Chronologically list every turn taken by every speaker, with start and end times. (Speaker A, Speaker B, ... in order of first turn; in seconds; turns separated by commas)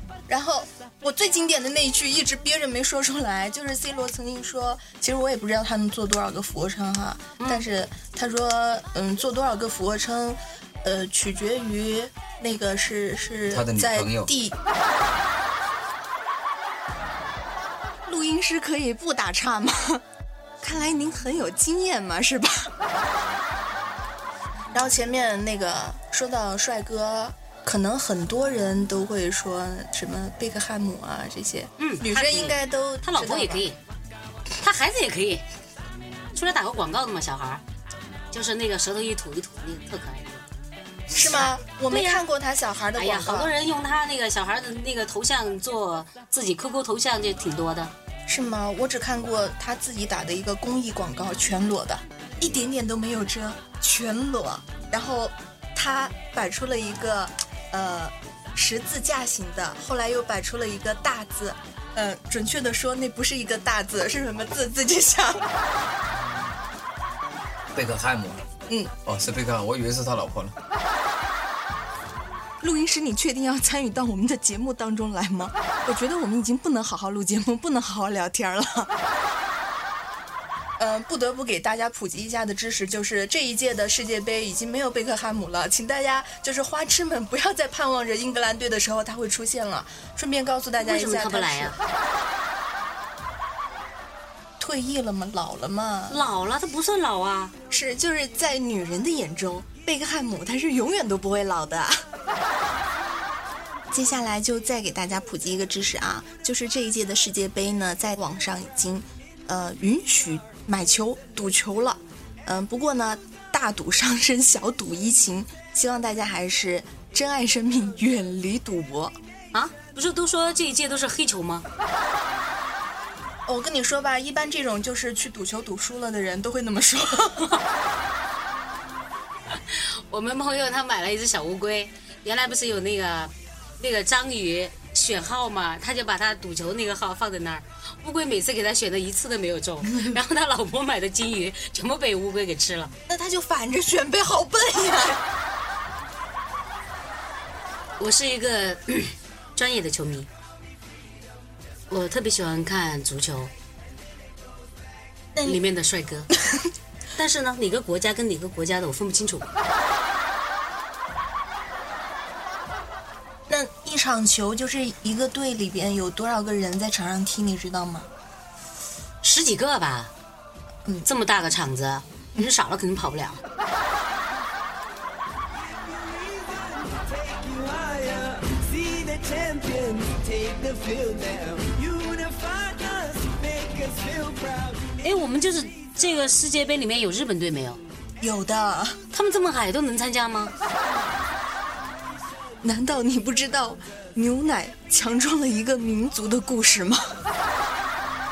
Speaker A: 0.3-14.6, Speaker B: 7.4-7.6, Speaker C: 13.5-14.3, Speaker A: 18.1-20.0, Speaker A: 20.6-22.7, Speaker A: 24.7-33.7, Speaker B: 31.8-33.8, Speaker B: 34.6-35.4, Speaker B: 36.3-37.6, Speaker B: 38.3-40.5, Speaker A: 41.1-43.5, Speaker B: 41.1-42.2, Speaker B: 43.0-47.9, Speaker A: 48.3-65.4, Speaker C: 67.8-68.5, Speaker A: 68.7-69.0, Speaker C: 69.1-70.5, Speaker A: 72.6-78.9, Speaker A: 80.8-91.8, Speaker B: 90.8-91.8, Speaker A: 94.6-96.2, Speaker B: 96.1-97.5, Speaker A: 97.7-102.0, Speaker A: 103.9-119.2, Speaker B: 119.5-121.7, Speaker A: 123.5-127.5, Speaker B: 129.5-142.9, Speaker A: 143.1-145.2, Speaker B: 148.0-150.3, Speaker B: 151.9-153.5, Speaker A: 155.3-155.6, Speaker B: 155.4-156.3, Speaker B: 157.2-159.5, Speaker A: 163.5-168.1, Speaker B: 169.2-170.1, Speaker B: 171.1-173.4, Speaker D: 177.2-184.7, Speaker B: 185.0-187.8, Speaker A: 188.2-189.0, Speaker B: 189.1-190.5, Speaker A: 192.6-197.2